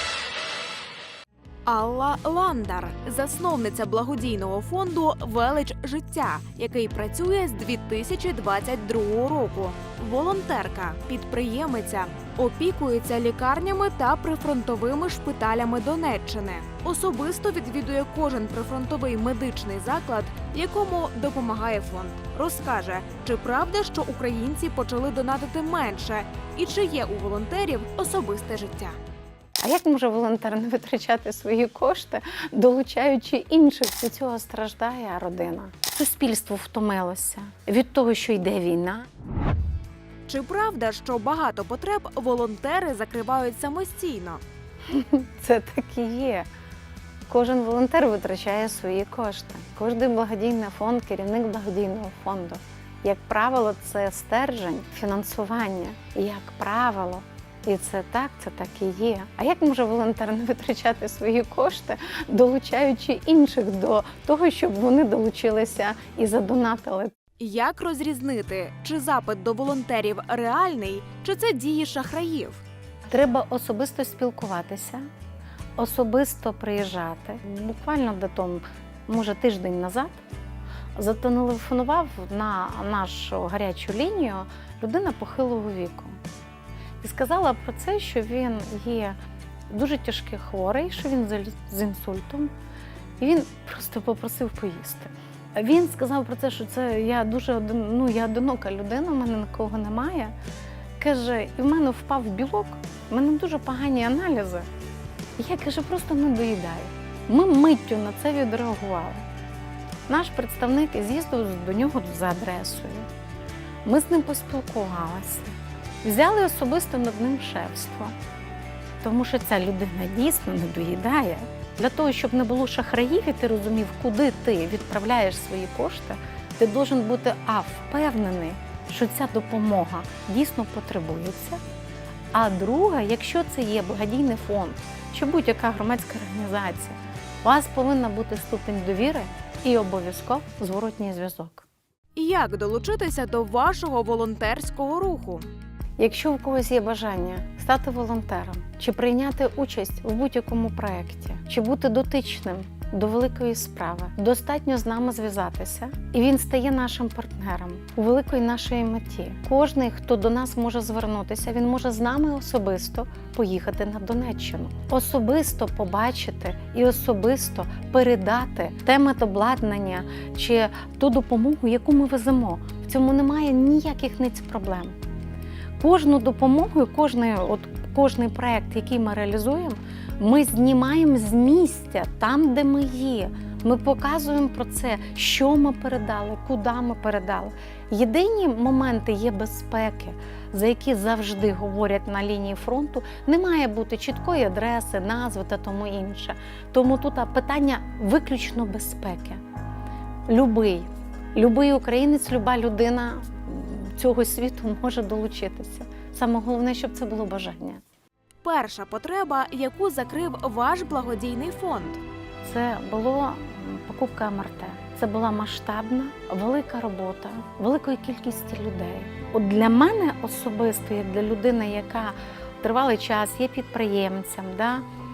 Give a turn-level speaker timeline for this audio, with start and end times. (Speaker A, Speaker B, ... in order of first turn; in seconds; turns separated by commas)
Speaker A: 1.7-28.9, Speaker B: 29.6-39.1, Speaker A: 40.3-44.4, Speaker B: 44.9-46.5, Speaker B: 47.3-67.1, Speaker A: 67.4-72.6, Speaker B: 73.1-75.1, Speaker B: 75.8-80.2, Speaker B: 81.0-86.2, Speaker B: 87.0-89.2, Speaker B: 89.7-92.5, Speaker B: 93.2-100.3, Speaker B: 101.0-104.7, Speaker B: 105.4-109.2, Speaker B: 110.1-113.1, Speaker B: 113.8-118.2, Speaker B: 119.0-131.6, Speaker B: 132.3-141.7, Speaker A: 142.2-145.4, Speaker B: 146.0-175.0, Speaker B: 175.8-199.4, Speaker B: 200.3-207.8, Speaker A: 208.4-212.0, Speaker B: 212.4-224.8